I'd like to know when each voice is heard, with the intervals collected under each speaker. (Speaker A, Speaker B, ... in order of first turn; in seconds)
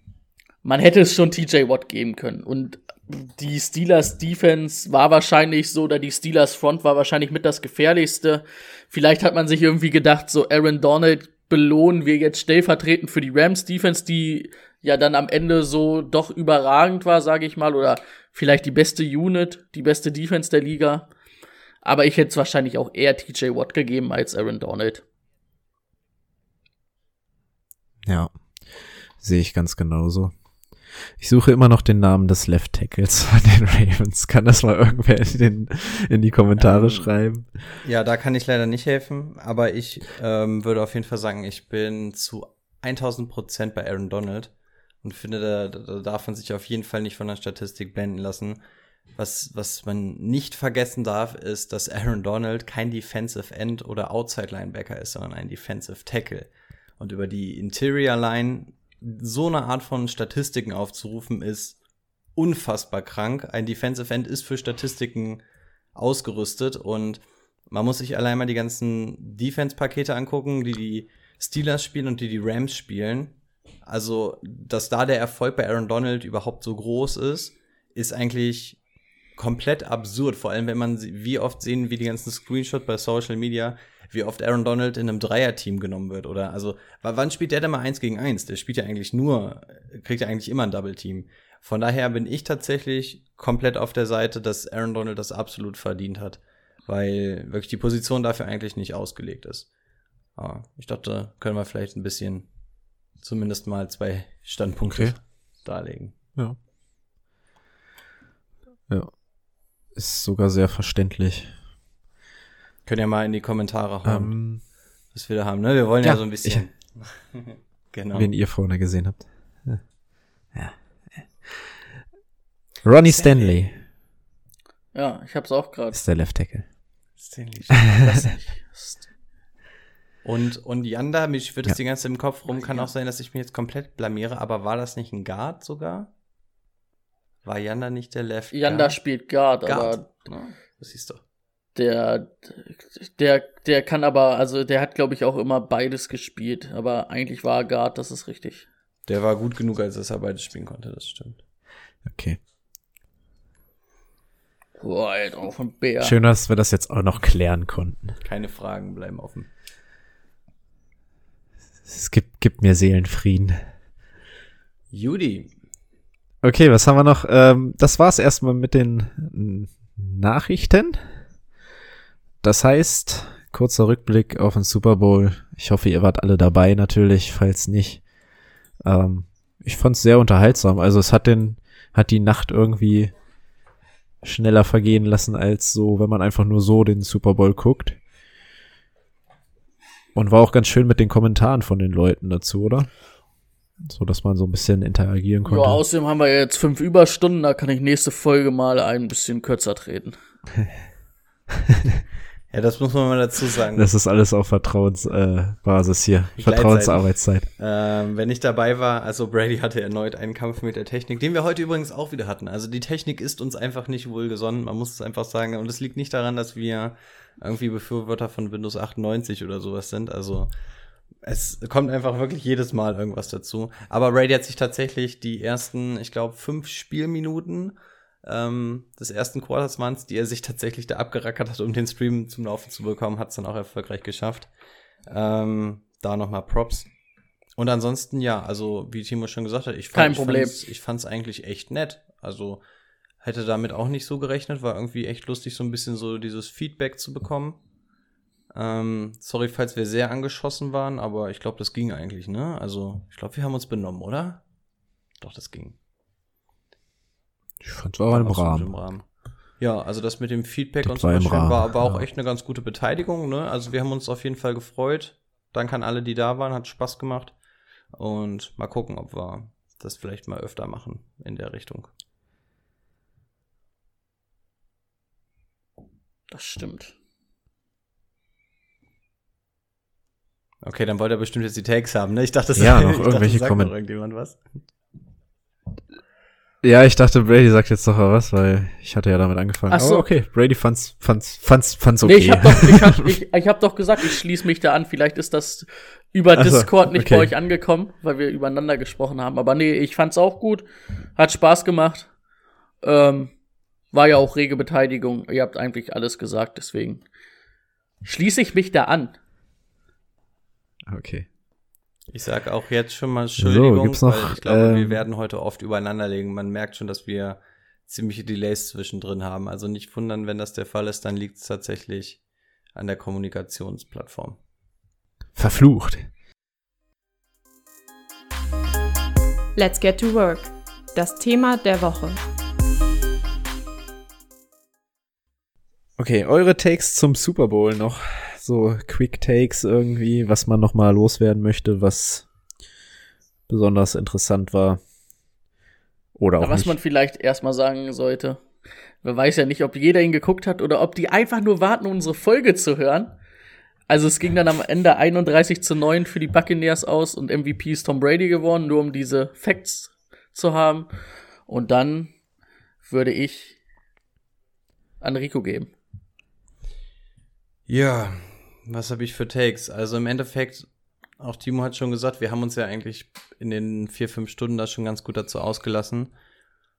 Speaker A: 0.6-21.1, 21.9-25.0, 124.9-126.0, 128.2-129.0, 138.5-140.1, 141.8-148.7, 154.8-156.2, 195.4-200.2, 239.9-240.6, 276.3-276.9, 289.7-290.1, 292.0-300.6, 301.2-302.1, 302.8-303.3, 303.9-307.0, 308.0-309.2, 346.4-348.4, 349.0-353.1, 353.9-360.9, 361.5-362.1, 362.9-363.6, 365.0-365.7
Speaker B: 28.1-30.3, 31.2-37.6, 108.9-109.1, 110.0-111.5, 114.0-114.6, 116.0-116.6, 118.1-119.8, 120.5-121.7, 122.8-123.8, 125.9-126.7, 152.1-152.4, 156.0-158.1, 161.9-163.6, 166.4-171.0, 172.4-178.0, 178.8-183.1, 184.2-188.0, 190.2-192.9, 193.8-195.8, 201.7-202.0, 203.8-207.5, 257.6-258.7, 260.8-262.0, 282.6-283.7, 286.6-293.2, 296.4-297.3, 310.9-311.3, 313.4-315.0, 325.4-326.1, 336.0-342.3, 343.5-344.8, 346.2-346.8
Speaker C: 36.6-37.1, 37.8-44.5, 45.0-48.6, 49.2-61.8, 62.4-65.4, 66.0-73.3, 73.9-78.8, 79.4-99.7, 100.4-102.5, 103.2-106.1, 112.9-114.4, 115.1-118.3, 123.0-123.6, 127.2-128.4, 130.2-136.1, 137.4-139.0, 139.7-141.2, 149.1-151.4, 158.2-159.5, 164.9-165.5, 202.5-203.9, 206.4-220.5, 221.2-234.5, 235.1-236.9, 237.6-242.6, 243.2-247.6, 248.5-254.4, 255.2-255.8, 258.1-259.0, 259.6-267.3, 267.9-271.9, 280.6-284.4, 312.1-322.2, 322.8-324.4, 367.7-370.7, 371.2-376.1
Speaker D: 329.6-332.2